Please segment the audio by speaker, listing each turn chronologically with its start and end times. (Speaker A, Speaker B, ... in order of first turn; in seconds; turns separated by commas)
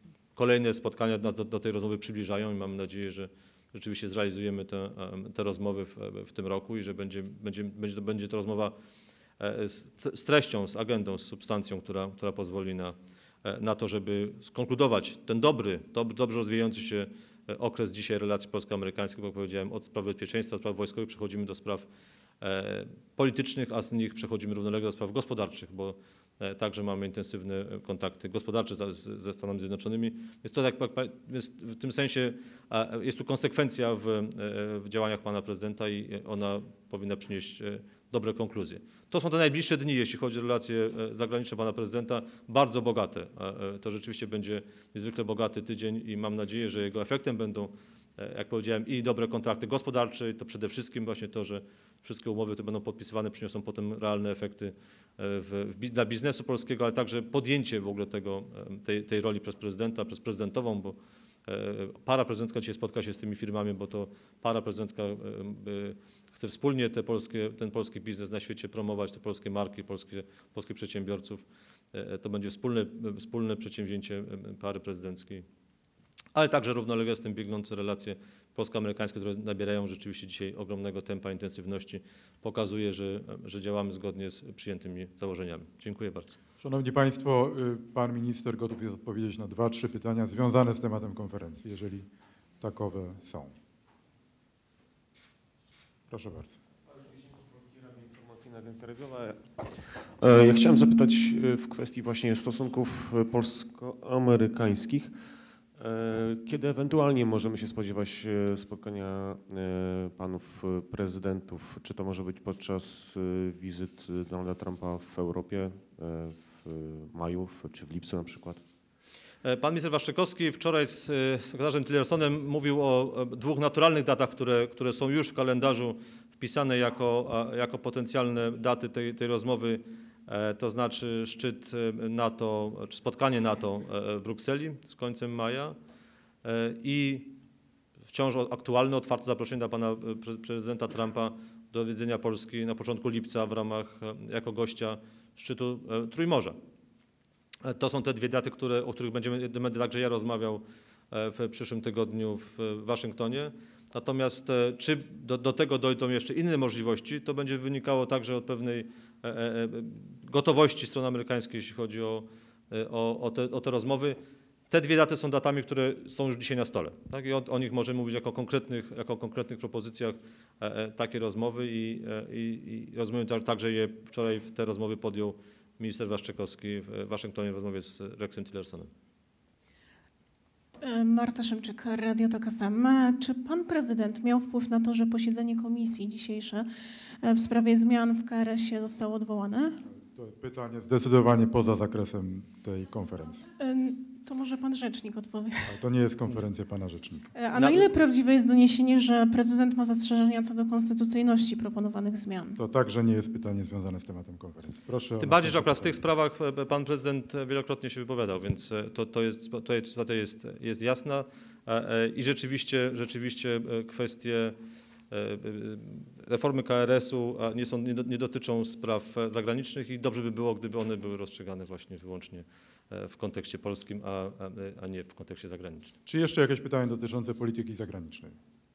Speaker A: 0.3-8.7, Speaker A: 9.4-21.9, Speaker A: 22.4-75.4, Speaker A: 76.3-86.4, Speaker B: 86.6-92.0, Speaker B: 92.6-93.5, Speaker B: 96.1-96.6, Speaker C: 97.0-118.6, Speaker A: 119.4-135.8, Speaker A: 136.4-137.4, Speaker A: 138.1-146.6, Speaker A: 147.6-164.2, Speaker A: 164.7-178.9, Speaker D: 180.8-186.7, Speaker D: 187.2-189.8, Speaker B: 190.1-193.4, Speaker D: 193.6-195.7, Speaker B: 195.7-197.3, Speaker D: 197.3-202.6, Speaker A: 197.5-197.9, Speaker B: 202.6-206.0, Speaker A: 205.2-214.6, Speaker A: 215.1-225.9, Speaker B: 226.1-228.3